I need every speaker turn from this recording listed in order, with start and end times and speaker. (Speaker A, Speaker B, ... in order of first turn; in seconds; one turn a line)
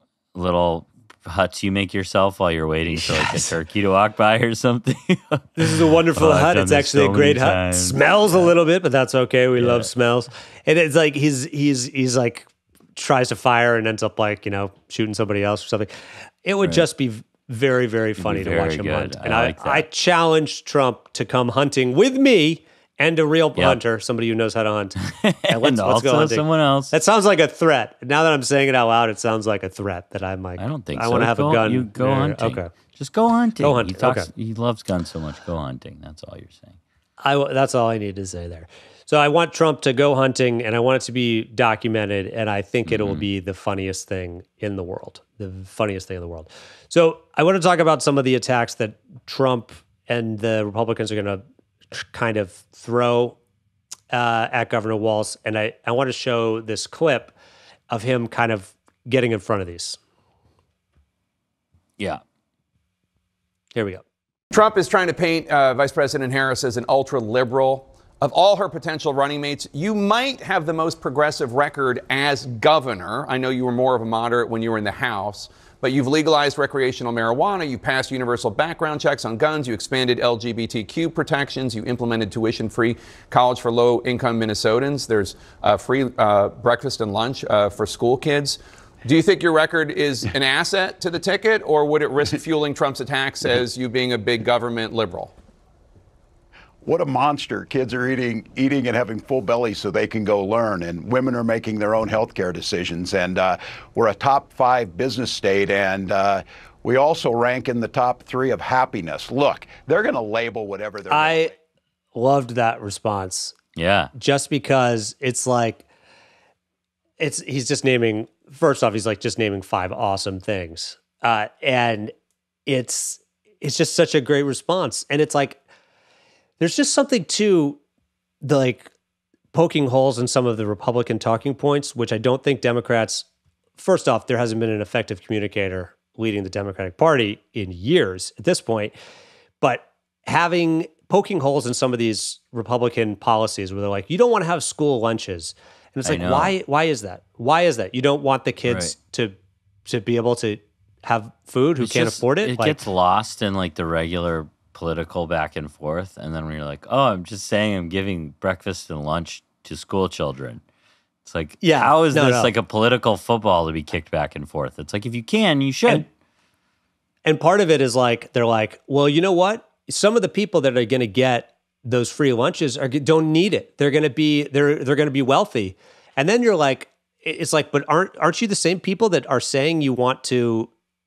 Speaker A: 0.3-8.5
Speaker B: 2.9-3.5
Speaker B: 5.6-15.9
Speaker A: 9.5-9.9
Speaker B: 16.4-32.7
Speaker A: 18.2-19.9
Speaker A: 23.6-23.8
Speaker A: 25.0-26.9
Speaker A: 30.6-36.8
Speaker B: 33.6-34.3
Speaker B: 37.2-53.4
Speaker A: 42.9-43.2
Speaker B: 54.1-57.3
Speaker B: 57.9-60.0
Speaker B: 63.7-64.0
Speaker C: 64.5-95.3
Speaker D: 96.8-111.5
Speaker B: 111.1-111.5
Speaker B: 112.1-113.5
Speaker A: 113.7-114.1
Speaker B: 114.1-115.8
Speaker B: 117.2-122.1
Speaker B: 122.7-125.6
Speaker B: 126.6-127.8
Speaker B: 128.4-128.9
Speaker B: 129.5-133.2
Speaker B: 133.8-138.9
Speaker B: 139.6-149.3
Speaker A: 146.0-146.5
Speaker A: 148.6-148.9
Speaker B: 149.9-152.9
Speaker A: 151.8-160.6
Speaker A: 161.2-166.1
Speaker B: 161.6-162.5
Speaker B: 167.2-180.7